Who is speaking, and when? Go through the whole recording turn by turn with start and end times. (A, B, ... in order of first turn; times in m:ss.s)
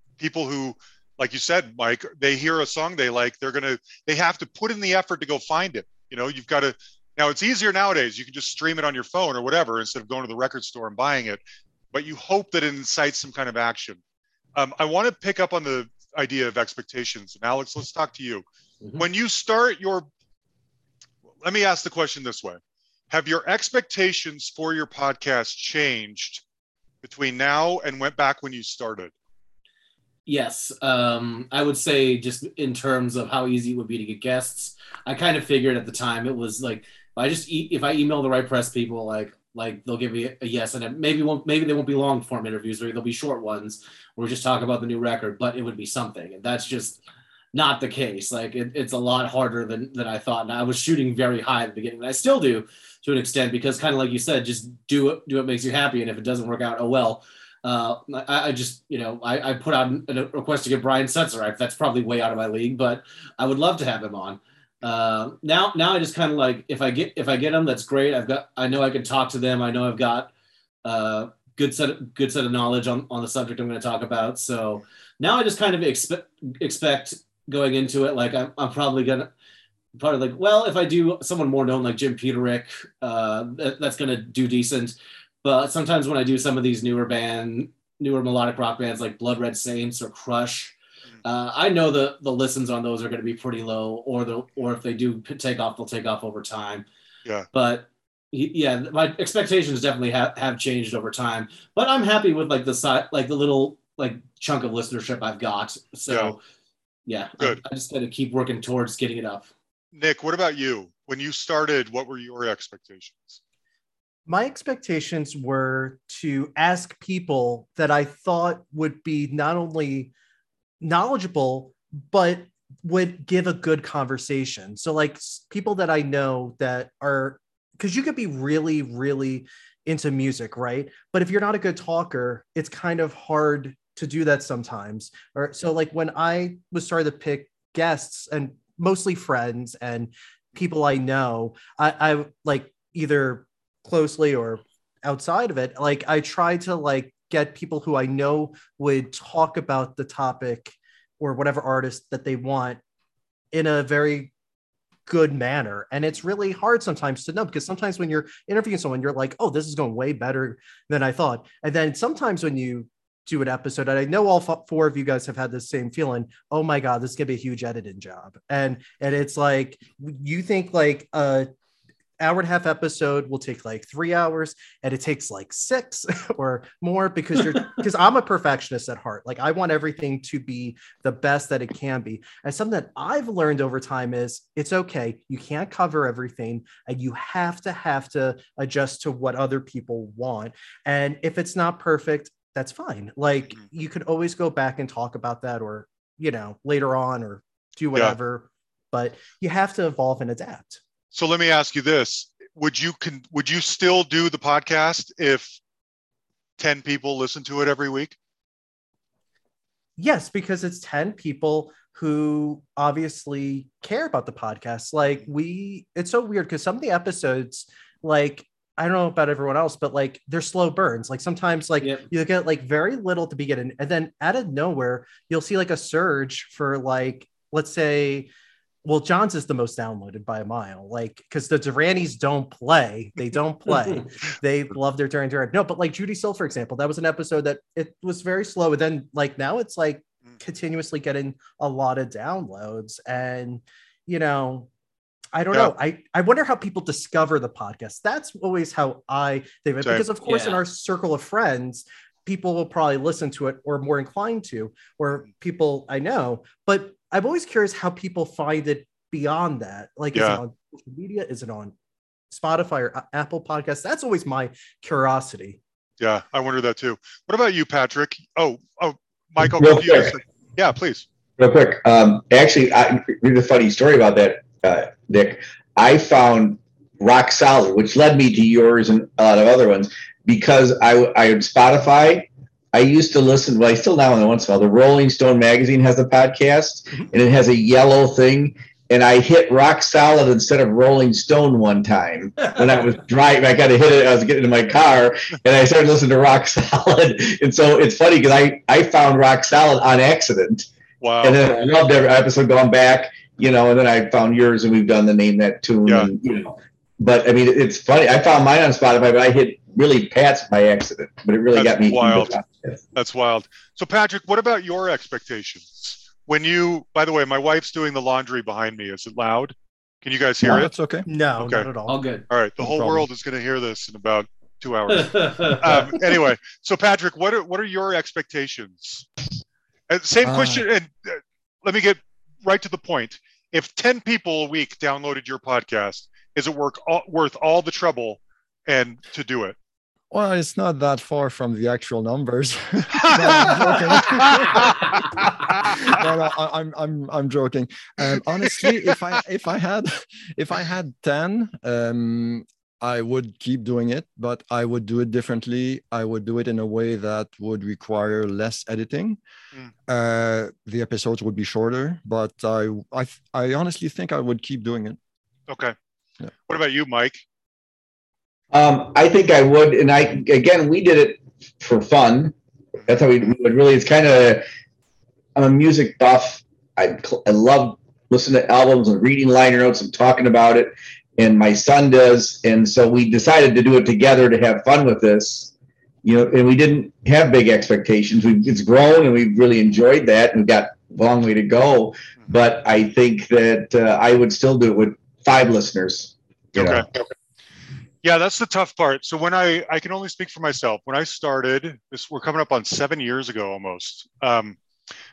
0:00.2-0:11.4 A
0:11.9-0:14.0 A
0:14.6-0:18.4 A
0:19.0-0:20.1 A
0:21.4-0:22.6 A
0:23.1-0:26.4 A
0:27.0-0:29.1 A
0:30.3-0:47.0 B
0:47.5-1:10.3 B
1:10.8-1:19.3 B
1:20.0-1:36.8 B
1:37.5-1:46.4 B
1:46.1-1:46.3 A
1:47.1-1:49.5 B
1:49.9-1:53.4 A
1:54.3-2:00.1 C
2:00.8-2:32.8 C
2:33.5-2:34.3 C
2:35.1-2:51.5 C
2:52.2-3:20.8 C
3:21.1-3:25.6 A
3:26.6-3:28.2 A
3:30.0-3:48.3 C
3:41.8-3:42.1 B
3:48.8-4:04.7 C
4:05.3-4:21.7 C
4:09.8-4:10.1 A
4:10.2-4:10.6 B
4:20.1-4:20.4 A
4:22.3-4:25.6 C
4:26.0-4:31.1 A
4:29.6-4:30.2 D
4:31.4-5:00.7 D
5:01.0-5:01.4 A
5:01.2-5:12.8 D
5:05.9-5:06.1 A
5:11.5-5:12.4 A
5:13.0-5:20.7 A
5:20.4-5:21.1 E
5:21.0-5:22.0 C
5:21.4-5:21.7 A
5:21.9-5:22.3 B
5:22.3-5:29.1 A
5:22.6-5:23.1 E
5:25.0-5:26.0 B
5:29.9-5:39.6 A
5:30.2-5:30.6 E
5:40.1-5:59.2 E
5:42.9-5:46.0 A
5:59.9-6:05.0 E
6:05.5-6:05.8 A
6:06.5-6:07.2 A
6:08.5-6:12.3 D
6:12.9-6:14.4 D
6:15.4-6:25.5 D
6:26.0-6:36.9 D
6:36.6-6:37.1 A
6:38.0-6:44.6 A